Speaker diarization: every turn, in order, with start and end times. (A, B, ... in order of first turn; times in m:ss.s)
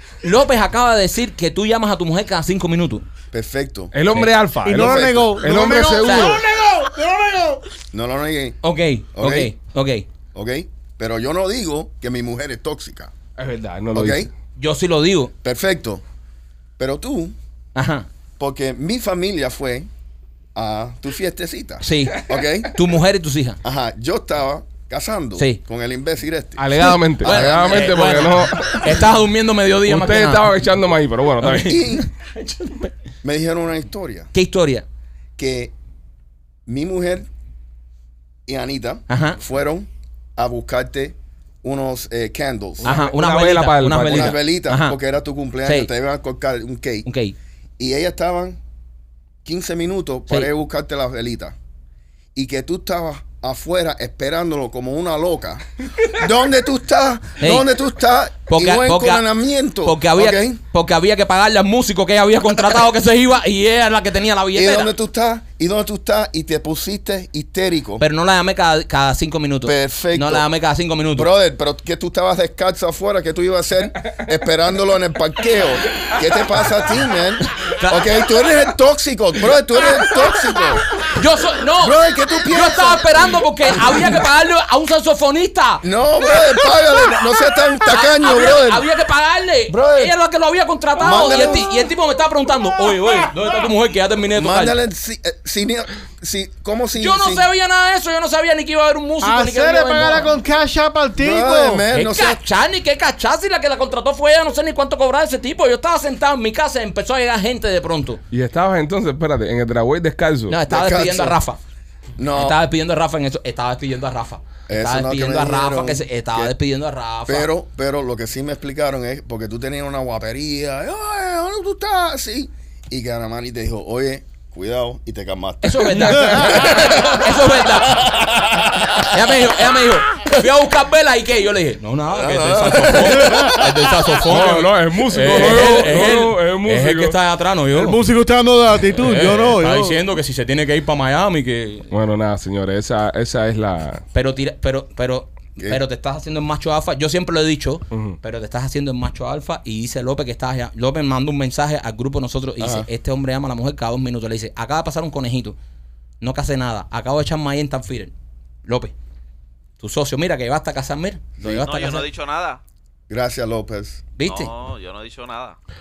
0:00.2-0:03.0 A
0:03.3-0:03.9 B
0:03.9-0:06.4 C
0:04.6-0:07.6 D
0:04.8-0:05.3 B
0:06.0-0:06.4 A
0:07.9-0:08.6 B
0:08.6-0:10.1 A
0:09.1-0:09.5 B
0:10.3-0:13.1 B
0:13.4-0:14.3 C
0:13.9-0:14.3 B
0:14.6-0:15.3 A
0:15.4-0:16.0 B
0:16.8-0:17.4 B
0:17.8-0:18.1 A
0:18.4-0:19.9 B
0:20.6-0:22.7 B
0:21.8-0:23.6 A
0:23.6-0:28.2 B
0:26.6-0:29.1 C
0:26.9-0:30.5 A
0:29.8-0:31.8 C
0:31.4-0:32.9 A
0:31.6-0:32.0 B
0:33.2-0:34.3 B
0:34.3-0:34.8 A
0:35.4-0:35.7 B
0:36.7-0:37.3 B
0:38.5-0:43.0 B
0:39.1-0:39.4 A
0:42.8-0:44.4 C
0:42.8-0:45.0 A
0:44.1-0:47.1 B
0:45.6-0:45.9 A
0:47.1-0:47.4 A
0:47.8-0:48.6 B
0:49.4-0:51.6 B
0:52.4-1:00.6 B
0:57.4-0:57.7 A
0:58.5-0:59.2 A
0:59.8-1:04.9 A
1:04.5-1:08.0 B
1:08.0-1:11.3 A
1:09.6-1:10.5 B
1:11.1-1:20.8 B
1:17.8-1:18.1 A
1:21.1-1:27.1 A
1:21.8-1:24.1 B
1:25.8-1:28.8 B
1:27.8-1:34.8 A
1:29.7-1:30.1 B
1:31.0-1:31.9 B
1:34.3-1:37.5 B
1:37.0-1:40.4 A
1:39.2-1:41.8 D
1:41.2-1:42.4 B
1:41.9-1:48.2 A
1:48.3-1:50.6 C
1:50.5-1:51.6 A
1:50.7-1:51.4 B
1:52.2-1:52.6 B
1:52.3-1:57.5 A
1:54.7-1:56.5 B
1:57.3-2:09.1 B
2:05.6-2:08.1 A
2:06.0-2:07.1 C
2:09.0-2:18.0 A
2:12.1-2:13.6 B
2:13.2-2:13.6 D
2:14.2-2:17.2 C
2:17.7-2:20.0 D
2:19.0-2:21.9 A
2:21.9-2:24.0 C
2:24.1-2:35.6 A
2:25.6-2:25.8 B
2:27.9-2:28.2 C
2:32.6-2:32.9 B
2:36.2-2:38.1 A
2:38.7-2:38.9 A
2:39.8-2:42.1 A
2:41.4-2:41.6 B
2:41.6-2:42.6 E
2:43.1-2:44.0 B
2:44.2-2:44.5 A
2:44.2-2:45.6 E